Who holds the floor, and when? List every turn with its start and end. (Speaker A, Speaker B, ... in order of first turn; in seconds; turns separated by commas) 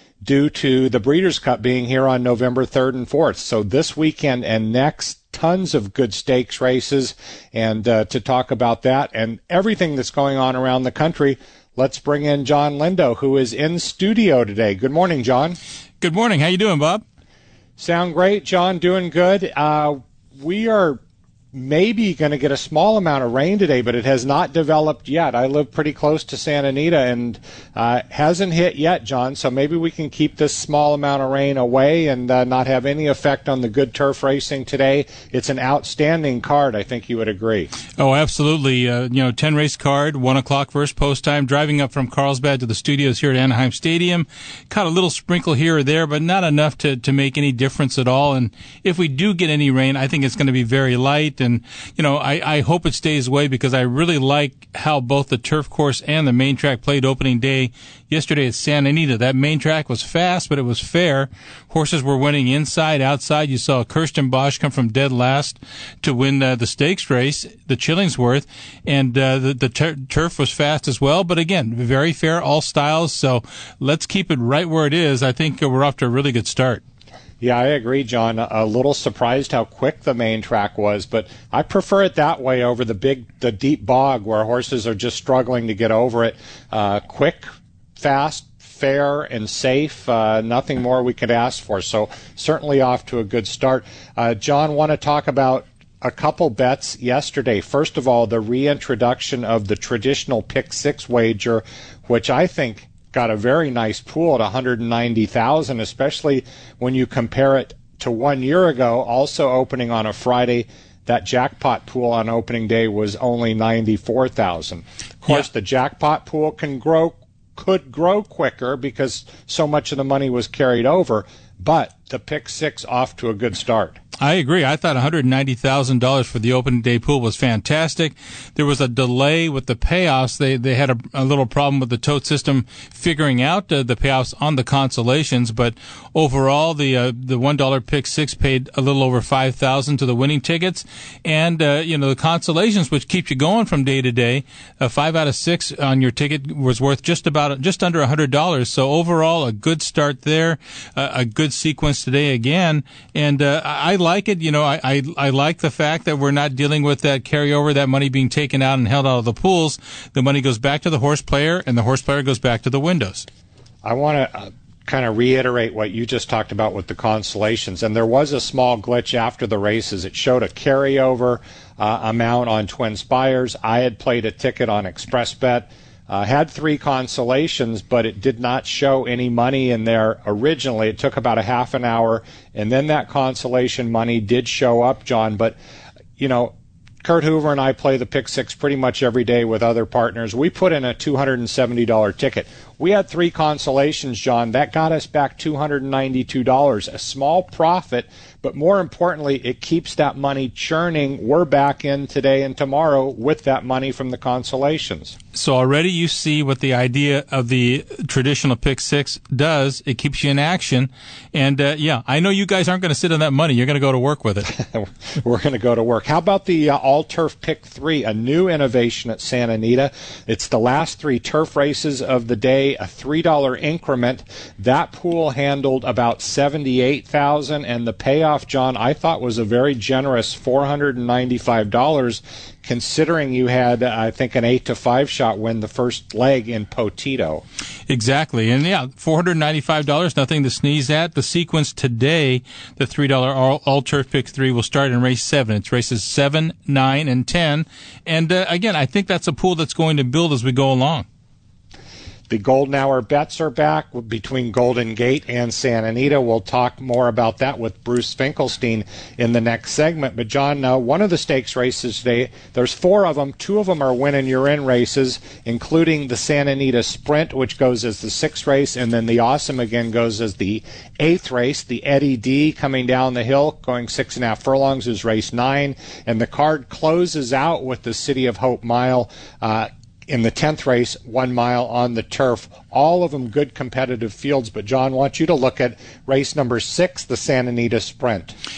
Speaker A: 0.2-15.6, Speaker B: 16.0-17.0, Speaker A: 17.8-21.0, Speaker A: 21.5-37.7, Speaker B: 38.0-76.8, Speaker A: 77.4-87.5, Speaker A: 88.0-124.0, Speaker B: 124.2-163.3, Speaker A: 163.8-185.6, Speaker A: 186.2-205.2, Speaker B: 205.3-214.5, Speaker A: 214.5-237.4, Speaker B: 237.9-251.1, Speaker A: 252.3-288.4